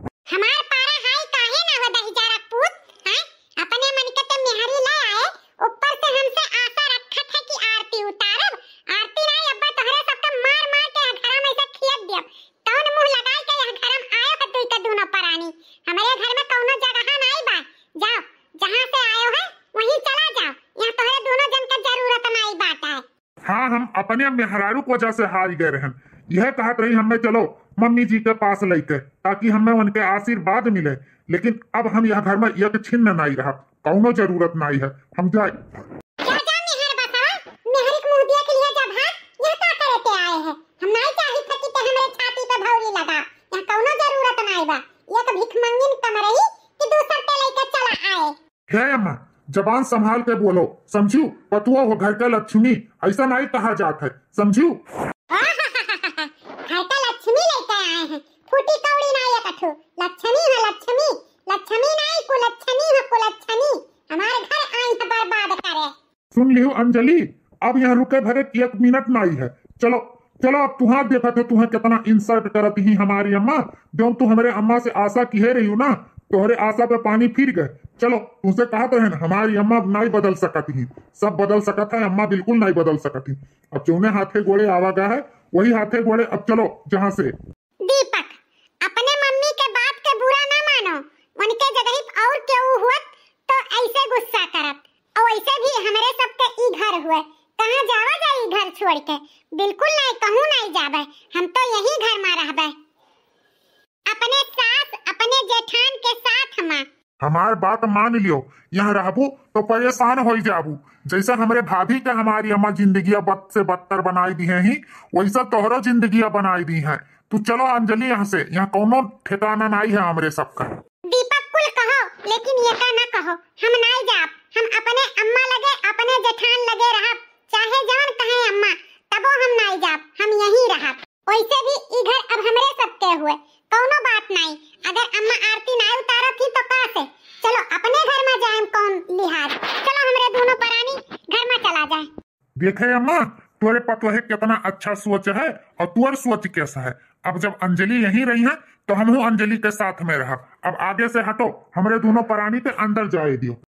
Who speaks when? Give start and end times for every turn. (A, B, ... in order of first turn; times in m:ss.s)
0:00.3-0:23.0 A
0:23.4-0:35.5 B
0:36.2-0:48.3 A
0:48.7-0:54.8 B
0:55.3-1:05.9 A
1:06.3-1:27.3 B
1:27.8-1:42.7 A
1:44.1-1:46.8 A
1:47.2-2:00.7 B
2:01.1-2:22.1 A
2:22.6-2:33.6 B